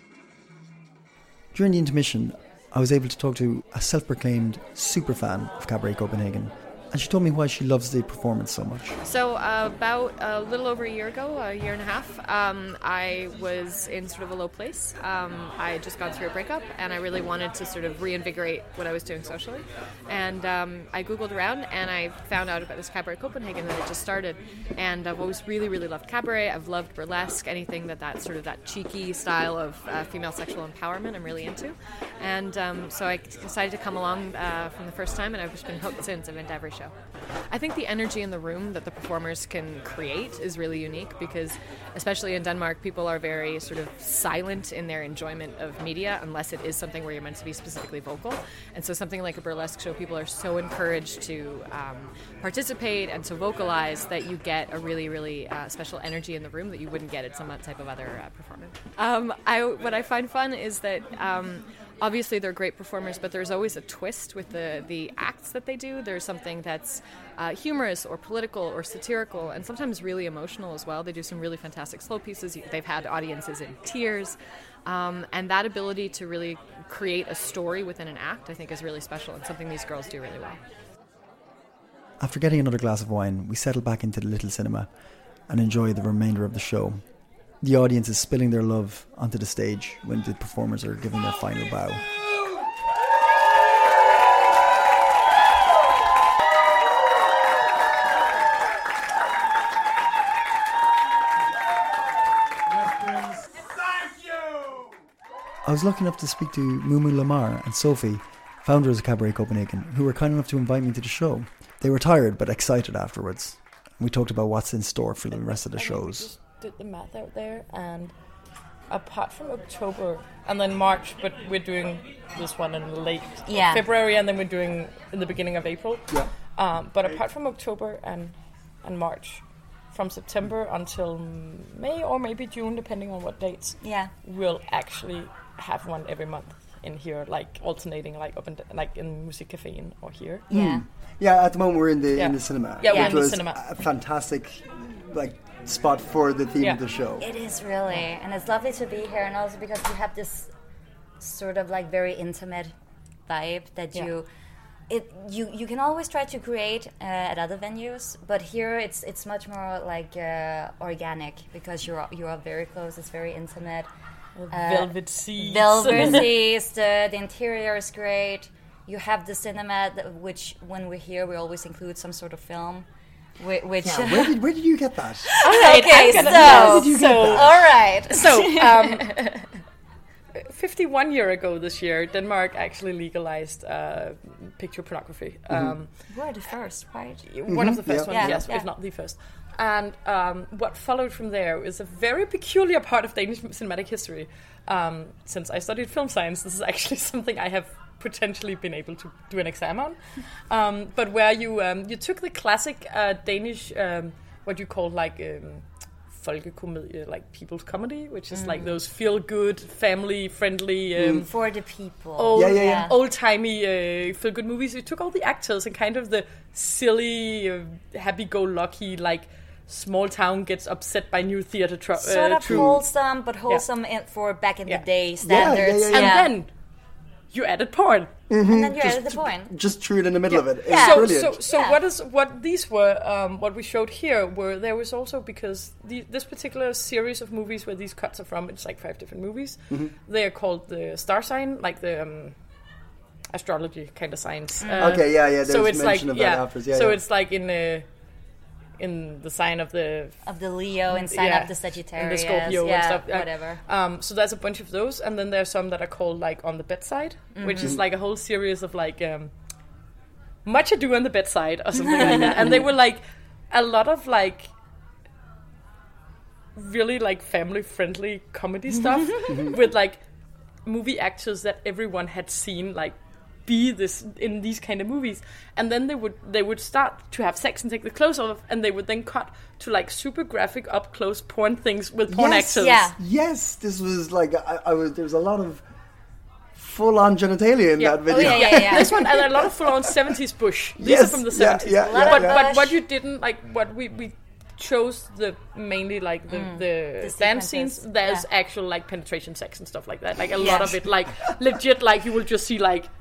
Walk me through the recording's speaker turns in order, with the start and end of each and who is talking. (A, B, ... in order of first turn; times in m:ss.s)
0:01.5-0:09.0 A
0:09.0-0:36.9 B
0:37.5-1:20.6 B
1:22.2-1:24.9 A
1:25.5-1:27.0 A
1:27.6-1:32.0 A
1:42.7-1:44.9 C
1:45.6-1:56.3 A
1:55.3-1:58.1 D
1:58.9-2:20.5 D
2:03.5-2:03.8 E
2:13.8-2:14.1 E
2:20.5-2:20.8 E
2:20.5-2:27.2 A
2:22.2-2:23.6 D
2:22.9-2:23.3 E
2:27.2-2:30.5 E
2:31.2-2:32.7 E
2:33.3-2:34.3 E
2:34.9-2:43.9 E
2:44.4-2:46.4 D
2:44.5-2:52.9 E
2:53.4-2:54.4 E
2:53.8-2:55.4 A
2:55.3-2:59.1 E
2:55.4-2:59.5 D
2:56.2-2:57.5 A
3:00.4-3:05.9 D
3:05.5-3:05.8 A
3:06.1-3:07.3 E
3:07.3-3:20.0 D
3:07.5-3:08.5 A
3:08.1-3:08.7 E
3:20.5-3:31.3 D
3:28.3-3:28.8 E
3:31.0-3:31.3 A
3:31.2-3:33.0 E
3:32.2-3:42.8 D
3:32.3-3:32.9 A
3:42.0-3:46.4 E
3:42.5-3:42.8 A
3:45.2-3:46.2 A
3:45.9-3:46.5 D
3:47.3-3:48.1 D
3:48.3-3:51.4 A
3:48.4-3:49.5 E
3:50.3-4:02.4 D
3:50.7-3:51.8 E
4:03.3-4:07.9 D
4:04.6-4:05.0 E
4:04.8-4:07.0 A
4:08.8-4:10.2 D
4:10.2-4:13.6 E
4:10.9-4:19.3 D
4:17.4-4:17.8 E
4:20.4-4:24.5 D
4:22.0-4:22.4 E
4:26.6-4:30.0 D
4:29.3-4:29.5 A
4:30.6-4:42.9 D
4:42.1-4:45.6 A
4:42.6-4:43.0 E
4:46.6-4:50.0 A
4:47.8-5:02.9 D
4:48.1-4:49.1 E
4:50.8-4:52.4 A
4:51.8-4:52.8 E
4:56.3-4:58.2 E
5:00.4-5:00.8 E